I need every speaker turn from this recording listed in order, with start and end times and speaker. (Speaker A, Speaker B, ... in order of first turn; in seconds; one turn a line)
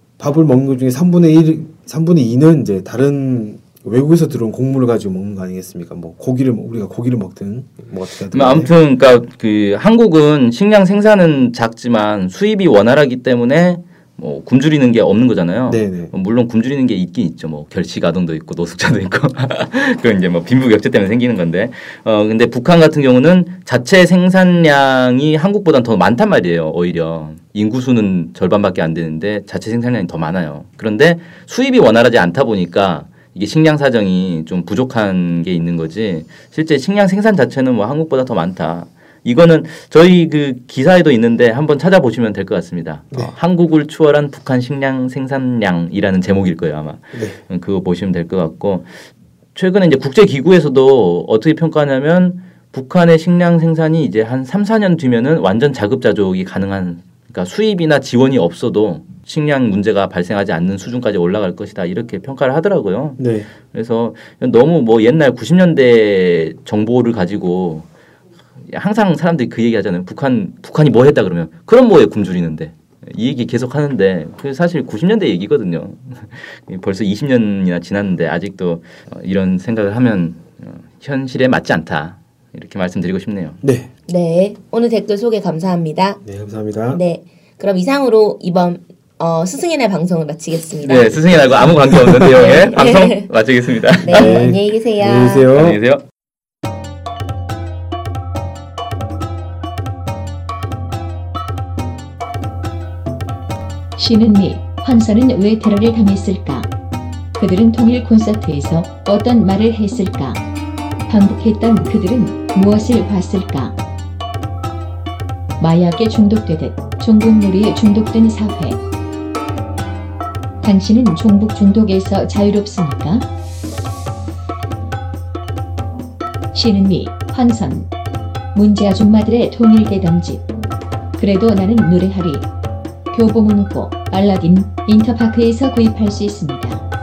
Speaker A: 0.2-8.7
Speaker B: 8.3-48.9
Speaker A: 15.7-16.1
Speaker A: 47.1-47.4
Speaker B: 49.5-67.9
Speaker A: 63.2-63.5
Speaker B: 68.7-83.6
Speaker A: 83.6-83.9
Speaker C: 84.1-86.2
Speaker A: 86.2-87.0
Speaker C: 86.9-91.3
Speaker B: 90.8-94.5
Speaker A: 91.9-92.3
Speaker C: 92.3-93.3
Speaker C: 94.0-95.5
Speaker A: 94.1-95.8
Speaker B: 95.5-96.0
Speaker D: 104.0-106.7
Speaker D: 107.3-110.4
Speaker D: 111.1-113.8
Speaker D: 115.6-118.8
Speaker D: 120.6-123.3
Speaker D: 126.5-127.9
Speaker D: 128.5-130.5
Speaker D: 131.2-132.5
Speaker D: 133.1-136.8